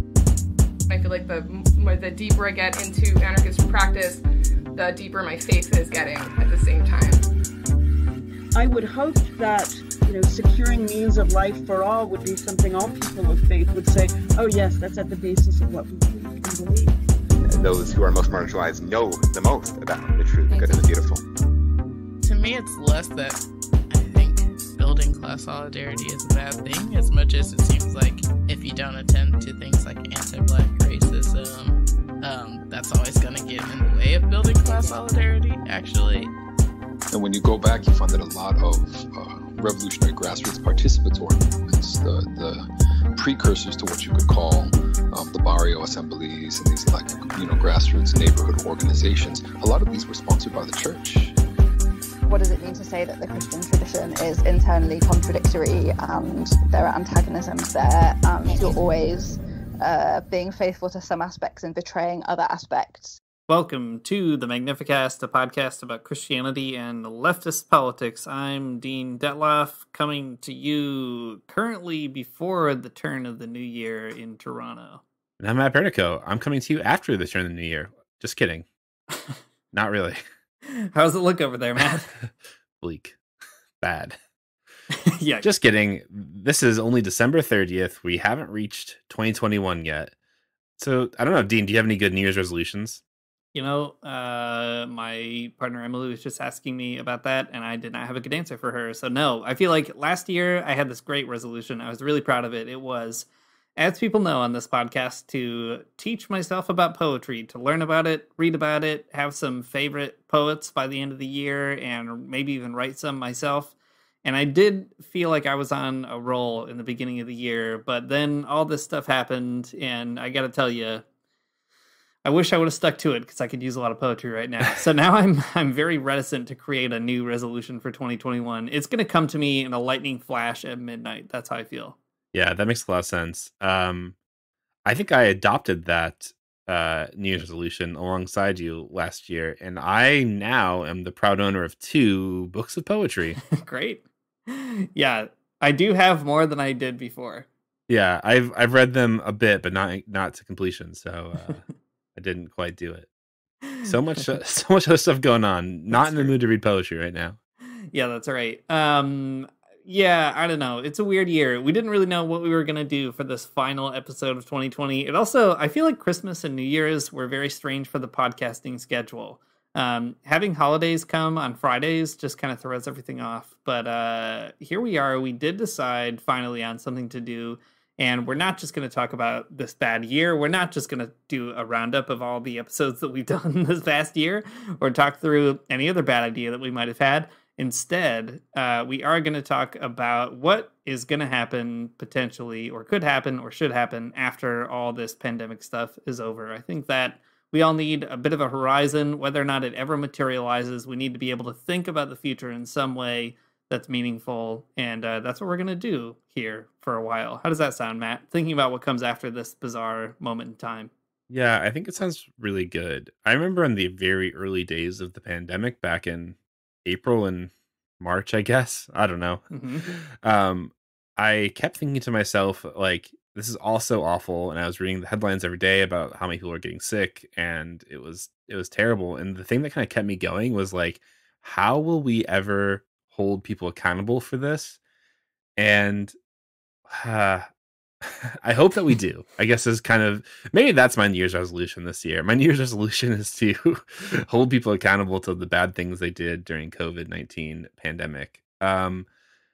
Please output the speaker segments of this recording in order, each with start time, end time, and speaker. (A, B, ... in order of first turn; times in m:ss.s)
0:00.9-0:04.2 A
0:04.7-0:07.2 A
0:08.5-0:16.9 B
0:17.5-0:21.2 C
0:20.5-0:20.8 D
0:22.2-0:36.3 E
0:34.6-0:34.9 D
0:37.1-0:42.6 F
0:43.1-0:51.3 F
0:52.2-1:03.2 D
1:03.5-1:15.0 G
1:15.4-1:18.6 H
1:19.7-1:20.2 H
1:20.7-1:22.1 G
1:22.8-1:23.2 H
1:23.8-1:24.2 H
1:24.9-1:25.4 G
1:25.4-1:30.1 H
1:30.8-1:33.0 H
1:33.5-1:43.2 G
1:43.8-1:53.7 G
1:54.2-2:01.0 G
2:02.2-2:12.0 G
2:12.3-2:14.2 H
2:14.8-2:23.4 H
2:23.5-2:27.5 G
2:27.9-2:31.6 H
2:32.1-2:33.1 H
2:33.8-2:37.4 H
2:35.9-2:36.3 G
2:37.9-3:30.9 G
3:31.3-3:54.8 H
3:39.5-3:39.9 G
3:55.6-3:56.1 H
3:56.9-3:57.5 H
3:58.0-4:09.1 H